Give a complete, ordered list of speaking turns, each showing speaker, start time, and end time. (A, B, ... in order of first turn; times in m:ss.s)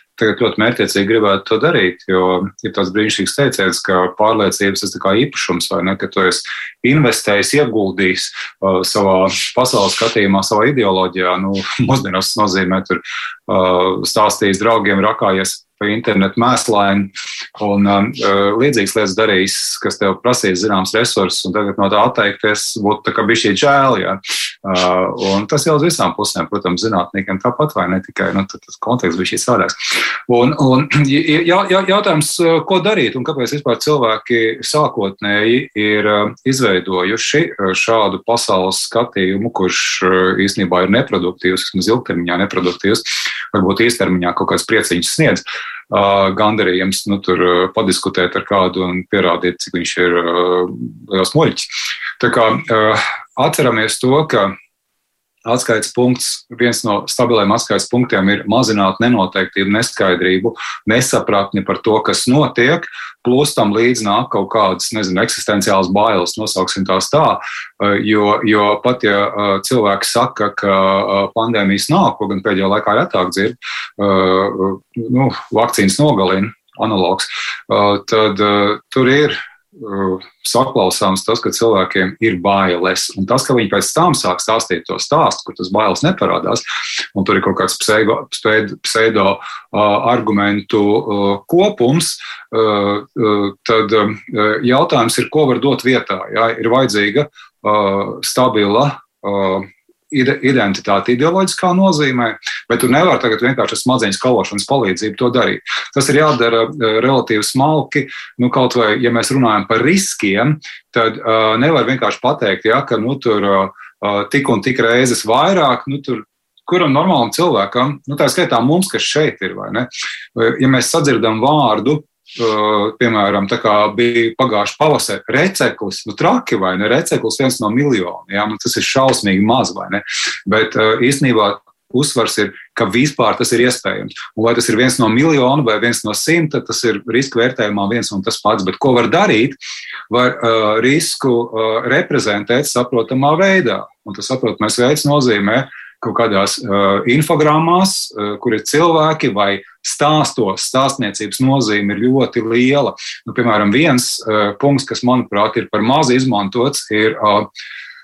0:00.2-0:29.8 A
0:30.3-0:51.7 A
0:52.2-0:54.5 A
0:55.4-2:19.6 A
2:20.1-2:37.5 A